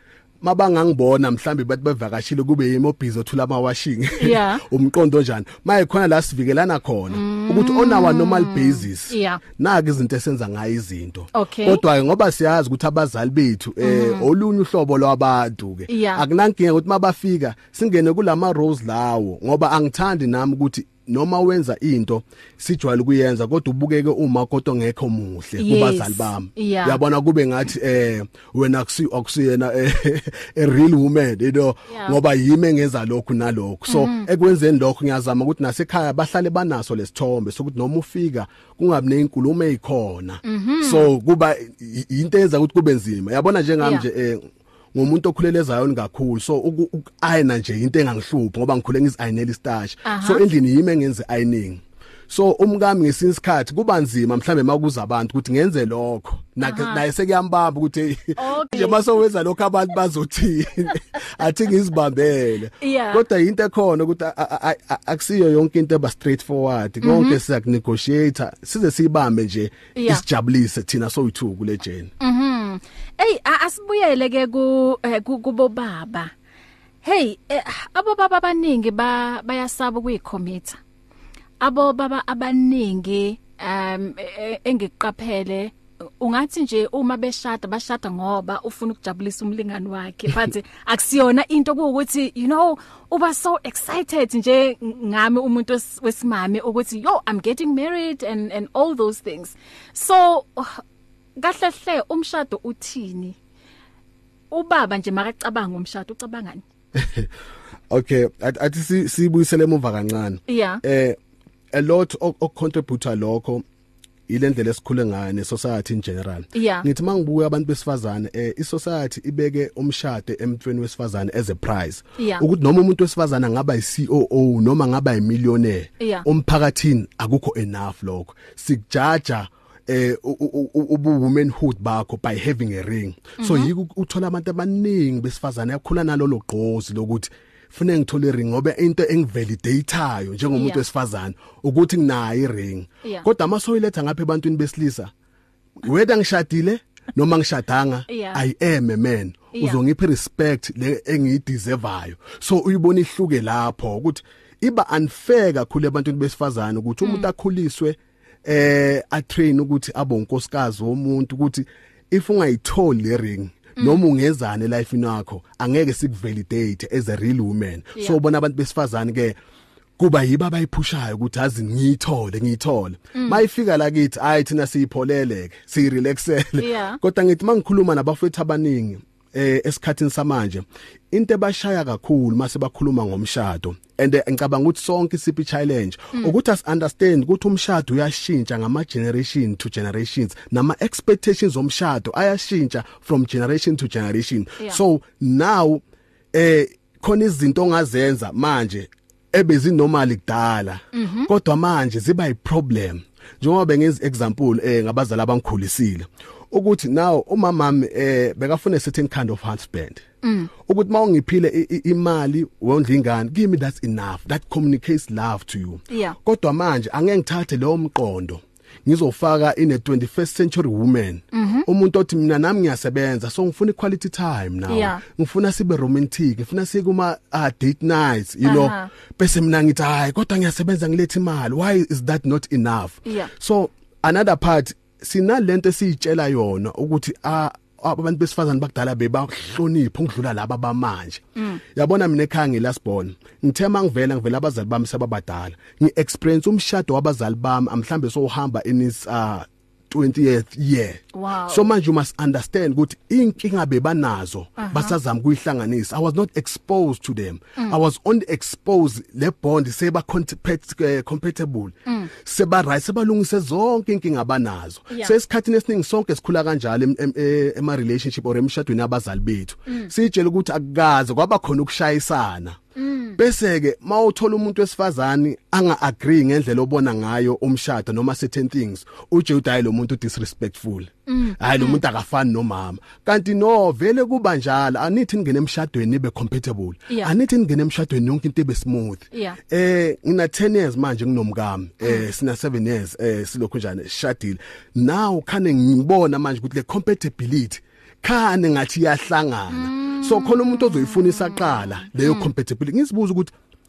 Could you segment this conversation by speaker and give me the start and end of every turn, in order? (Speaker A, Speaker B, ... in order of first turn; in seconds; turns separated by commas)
Speaker A: 0.4-72.1, Speaker B: 4.2-4.6, Speaker B: 7.1-9.4, Speaker B: 11.3-11.8, Speaker B: 13.8-14.3, Speaker B: 15.9-16.2, Speaker B: 25.6-27.0, Speaker B: 31.9-32.2, Speaker B: 33.9-34.3, Speaker B: 40.5-41.1, Speaker B: 43.8-44.0, Speaker B: 50.0-50.4, Speaker B: 56.6-57.0, Speaker B: 58.4-59.1, Speaker B: 62.8-63.2, Speaker B: 67.0-67.4, Speaker B: 70.0-70.2, Speaker B: 72.2-76.3, Speaker B: 77.0-80.8, Speaker B: 81.6-100.8, Speaker B: 101.4-103.4, Speaker B: 104.5-106.6, Speaker A: 107.0-107.3, Speaker A: 107.9-111.2, Speaker B: 110.5-110.8, Speaker A: 111.7-113.6, Speaker A: 114.3-145.1, Speaker B: 116.5-116.9, Speaker B: 122.2-122.5, Speaker B: 126.0-126.3, Speaker B: 133.4-133.7, Speaker B: 140.6-140.8, Speaker A: 145.8-169.4, Speaker B: 148.1-148.4, Speaker B: 149.5-149.8, Speaker B: 163.8-164.1, Speaker A: 170.0-195.8, Speaker B: 173.1-173.4, Speaker B: 176.6-177.0, Speaker A: 196.3-210.0, Speaker B: 200.9-201.3, Speaker B: 210.2-210.5, Speaker A: 210.6-272.6, Speaker B: 215.9-216.2, Speaker B: 221.3-221.7, Speaker B: 224.7-225.0, Speaker B: 228.4-228.9, Speaker B: 233.1-233.3, Speaker B: 241.4-241.6, Speaker B: 251.1-251.7, Speaker B: 254.6-254.9, Speaker B: 261.9-262.1, Speaker B: 272.8-273.2, Speaker A: 273.2-303.3, Speaker B: 281.1-281.8, Speaker B: 289.1-289.4, Speaker B: 291.8-292.1, Speaker B: 299.5-302.3